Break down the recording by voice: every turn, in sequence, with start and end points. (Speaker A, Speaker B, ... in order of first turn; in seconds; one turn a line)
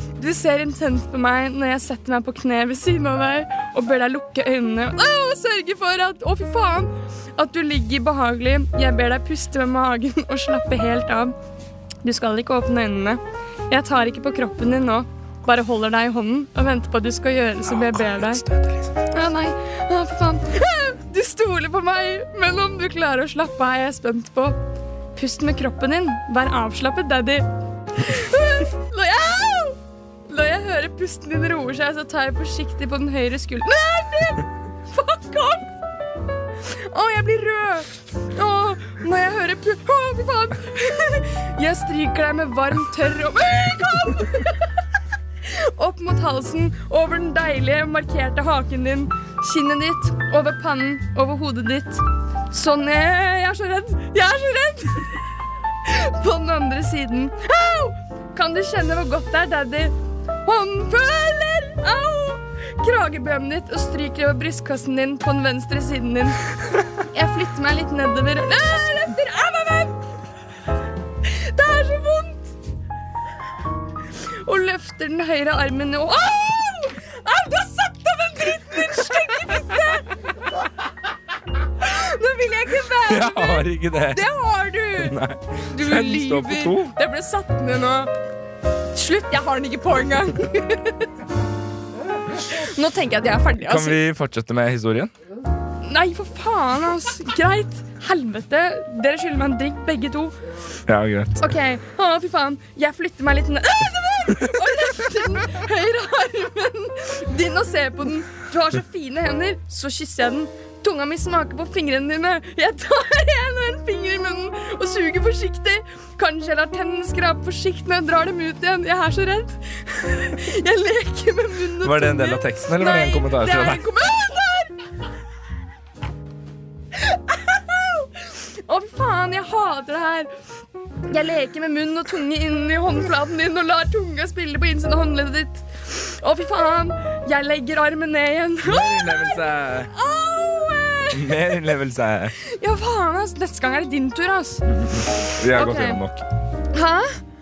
Speaker A: 0.2-11.3
Speaker A: 12.0-18.4
Speaker B: 17.7-18.9
Speaker A: 19.1-24.6
Speaker A: 25.1-35.7
Speaker A: 36.7-44.6
Speaker A: 45.5-55.1
Speaker A: 55.8-66.5
Speaker A: 67.0-70.0
Speaker A: 71.2-72.5
Speaker A: 74.4-80.1
Speaker A: 81.8-85.2
Speaker B: 83.0-84.3
Speaker B: 85.0-86.9
Speaker A: 85.7-88.1
Speaker A: 88.9-91.0
Speaker A: 92.4-94.0
Speaker B: 93.7-95.1
Speaker A: 95.8-100.4
Speaker B: 100.9-101.4
Speaker A: 101.4-124.7
Speaker B: 121.8-123.8
Speaker A: 127.0-130.3
Speaker A: 131.1-139.4
Speaker B: 138.6-139.9
Speaker A: 139.9-141.6
Speaker B: 141.1-142.3
Speaker A: 142.5-146.0
Speaker B: 144.7-146.2
Speaker A: 146.7-147.2